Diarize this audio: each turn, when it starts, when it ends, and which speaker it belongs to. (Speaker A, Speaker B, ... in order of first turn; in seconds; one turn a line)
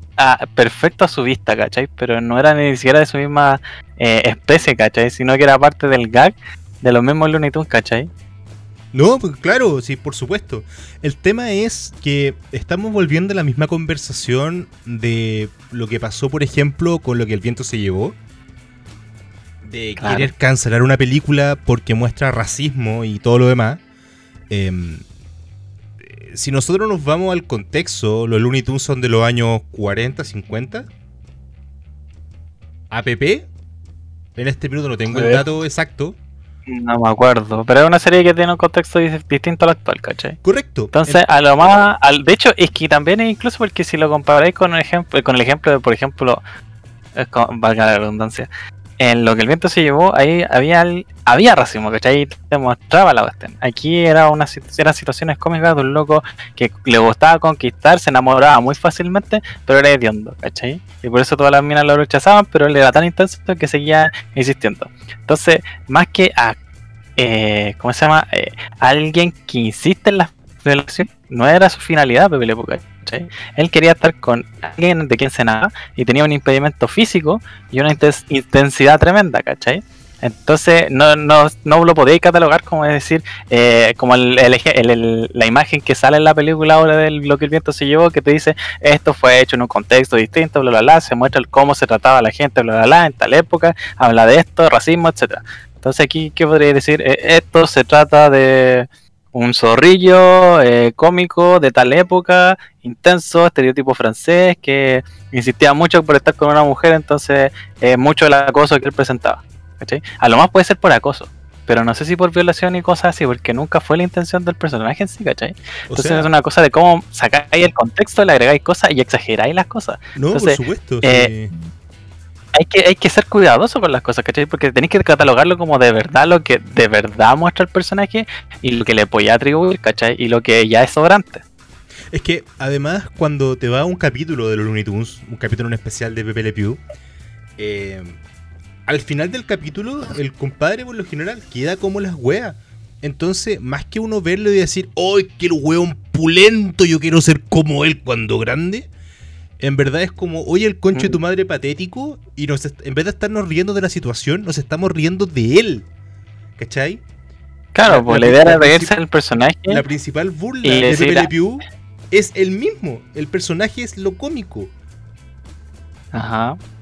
Speaker A: 0.2-8.1
Speaker B: 8.9-18.2
Speaker B: 19.6-23.8
Speaker A: 20.0-20.3
Speaker B: 24.5-25.0
Speaker B: 26.0-30.9
Speaker B: 32.9-33.5
Speaker B: 34.4-36.2
Speaker A: 36.6-40.4
Speaker B: 40.4-41.2
Speaker A: 40.9-46.4
Speaker A: 47.1-48.5
Speaker A: 49.0-66.6
Speaker A: 67.2-121.3
Speaker B: 115.9-116.3
Speaker B: 120.2-121.5
Speaker A: 122.5-131.4
Speaker B: 132.1-136.8
Speaker B: 137.6-138.2
Speaker B: 138.9-148.9
Speaker B: 149.6-155.9
Speaker A: 150.9-151.2
Speaker B: 156.6-157.0
Speaker A: 157.7-159.8
Speaker B: 157.9-158.9
Speaker B: 159.7-164.7
Speaker A: 160.6-161.3
Speaker A: 166.1-166.6